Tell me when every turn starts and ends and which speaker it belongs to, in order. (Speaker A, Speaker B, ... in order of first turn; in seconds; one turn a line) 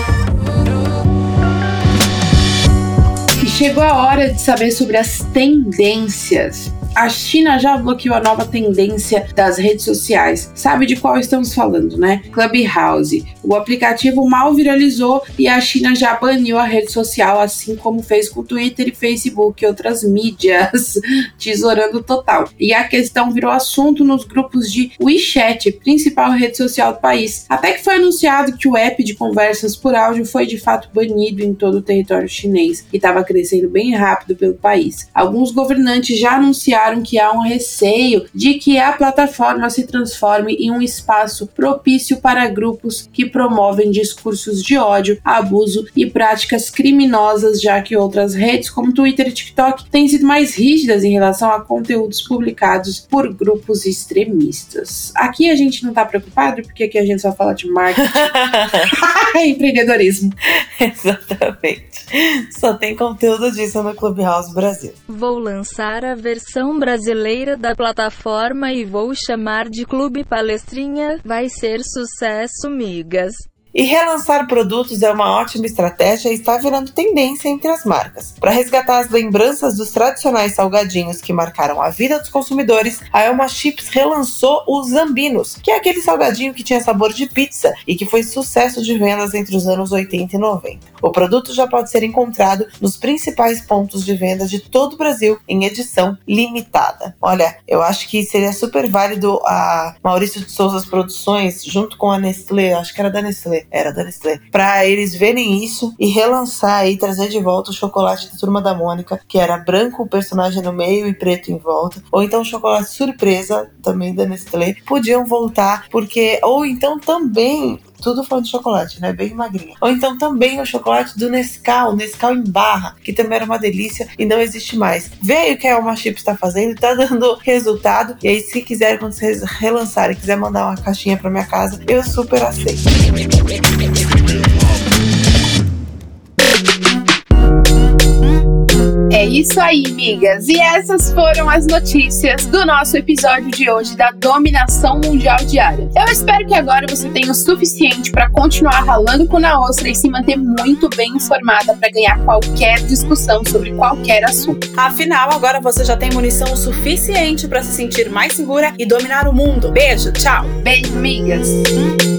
Speaker A: 3.4-58.3
Speaker B: 57.9-58.9
Speaker A: 58.9-60.4
Speaker B: 60.6-65.0
Speaker C: 65.1-73.4
Speaker B: 73.7-132.8
Speaker A: 139.1-154.6
Speaker D: 154.8-160.5
Speaker A: 160.5-161.6